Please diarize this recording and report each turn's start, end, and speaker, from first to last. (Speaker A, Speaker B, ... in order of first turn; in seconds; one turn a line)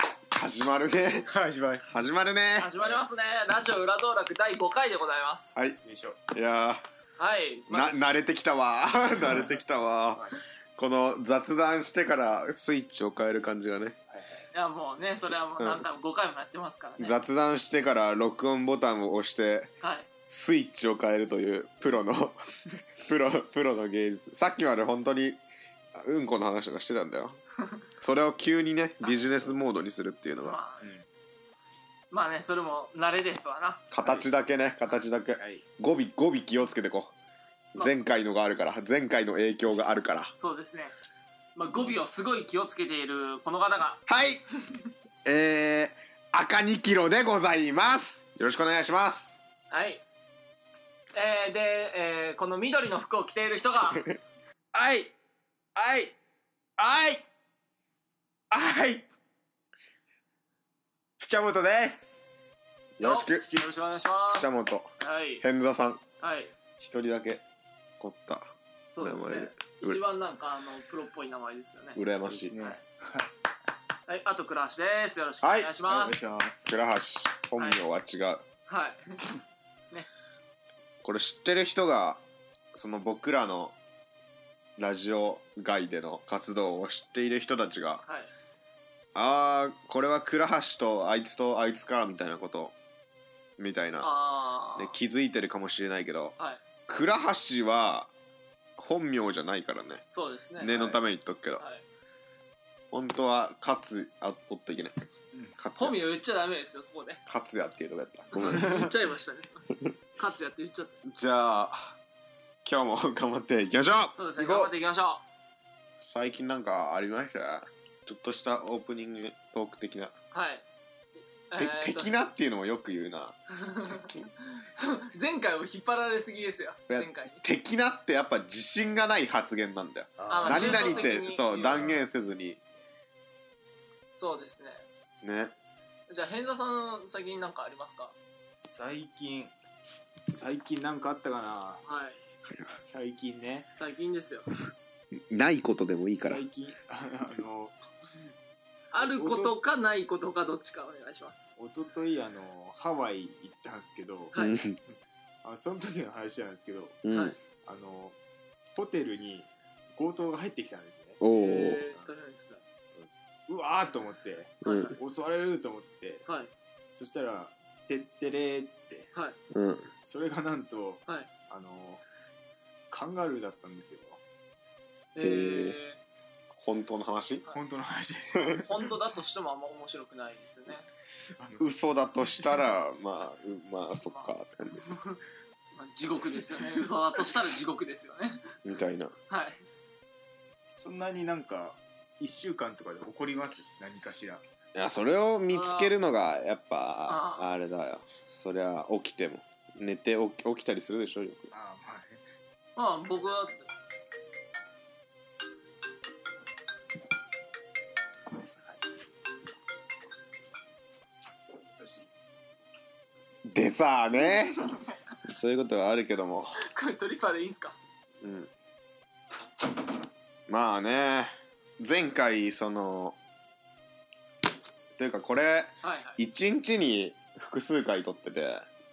Speaker A: 0.3-1.3
Speaker B: 1.3-1.9
Speaker A: 1.9-2.7
Speaker C: 2.6-5.6
Speaker B: 5.8-6.2
Speaker A: 6.3-6.8
Speaker C: 7.2-8.0
Speaker A: 7.7-14.0
Speaker B: 14.1-14.5
Speaker C: 14.5-17.2
Speaker A: 15.6-16.0
Speaker A: 17.0-19.7
Speaker C: 19.8-20.1
Speaker A: 20.3-22.4
Speaker A: 23.0-25.4
Speaker A: 25.9-27.4
Speaker A: 28.0-30.6
Speaker C: 29.0-29.3
Speaker C: 30.4-30.9
Speaker C: 32.1-33.9
Speaker A: 33.9-37.1
Speaker B: 34.0-34.3
Speaker B: 35.4-35.6
Speaker A: 37.8-40.3
Speaker C: 40.4-40.9
Speaker C: 41.6-44.0
Speaker A: 44.1-44.4
Speaker A: 45.2-49.4
Speaker C: 49.7-50.0
Speaker C: 51.1-54.1
Speaker B: 54.7-55.1
Speaker B: 55.8-56.1
Speaker B: 56.8-57.2
Speaker B: 58.5-59.1
Speaker B: 61.2-62.2
Speaker A: 63.0-63.5
Speaker C: 63.0-65.4
Speaker A: 64.3-64.9
Speaker A: 65.4-66.0
Speaker C: 66.2-66.5
Speaker A: 66.8-67.4
Speaker A: 68.0-70.0
Speaker C: 69.0-72.0
Speaker A: 72.0-72.6
Speaker B: 72.3-73.3
Speaker C: 74.1-76.2
Speaker B: 75.4-76.7
Speaker A: 76.7-78.4
Speaker C: 78.7-79.2
Speaker A: 81.0-82.2
Speaker A: 82.7-83.8
Speaker A: 84.8-88.0
Speaker C: 88.0-88.3
Speaker A: 89.2-92.8
Speaker A: 93.6-94.1
Speaker C: 94.0-94.9
Speaker A: 94.8-96.3
Speaker A: 96.9-98.1
Speaker A: 98.8-100.0
Speaker C: 100.1-101.0
Speaker A: 100.6-101.6
Speaker C: 101.6-101.8
Speaker A: 102.9-105.0
Speaker A: 105.6-106.0
Speaker C: 105.8-107.2
Speaker A: 107.3-108.9
Speaker C: 108.3-111.0
Speaker A: 111.1-112.0
Speaker A: 112.6-114.7
Speaker C: 114.2-115.2
Speaker A: 116.1-120.1
Speaker C: 120.3-120.7
Speaker C: 121.5-122.1
Speaker A: 121.6-124.3
Speaker C: 123.5-127.4
Speaker A: 126.9-132.6
Speaker B: 130.2-132.1
Speaker C: 130.3-131.8
Speaker C: 134.2-134.8
Speaker A: 135.2-135.5
Speaker C: 136.1-138.1
Speaker B: 138.6-139.5
Speaker B: 140.3-141.8
Speaker C: 141.8-142.2
Speaker A: 142.5-142.8
Speaker B: 142.8-143.7
Speaker C: 143.8-144.5
Speaker A: 145.3-146.4
Speaker B: 146.2-147.8
Speaker C: 148.9-151.4
Speaker B: 149.0-149.6
Speaker B: 151.6-154.3
Speaker C: 154.3-154.6
Speaker A: 154.3-154.8
Speaker B: 155.4-157.0
Speaker A: 157.0-157.4
Speaker C: 157.1-157.4
Speaker B: 157.6-158.2
Speaker B: 158.8-161.2
Speaker A: 161.2-161.9
Speaker C: 161.3-162.6
Speaker B: 163.0-166.2
Speaker A: 164.6-164.9
Speaker C: 164.6-165.0
Speaker C: 166.3-166.5
Speaker B: 166.9-169.1
Speaker A: 169.5-169.9
Speaker B: 170.0-172.0
Speaker B: 172.9-174.2
Speaker C: 175.2-176.0
Speaker A: 175.2-175.8
Speaker A: 176.6-177.5
Speaker B: 177.5-178.7
Speaker C: 178.7-180.9
Speaker B: 181.4-181.7
Speaker A: 181.6-184.9
Speaker C: 184.1-184.3
Speaker C: 184.9-185.2
Speaker C: 185.7-188.5
Speaker A: 188.6-189.2
Speaker C: 189.3-189.6
Speaker B: 190.7-194.4
Speaker A: 194.8-201.5
Speaker C: 195.5-195.9
Speaker C: 197.1-197.5
Speaker B: 201.5-202.2
Speaker C: 202.8-203.6
Speaker B: 208.3-208.8
Speaker A: 213.5-214.6
Speaker C: 214.3-214.8
Speaker A: 215.2-216.6
Speaker C: 216.7-217.8
Speaker A: 218.2-218.5
Speaker A: 220.5-223.2
Speaker A: 225.0-228.7
Speaker C: 225.8-226.2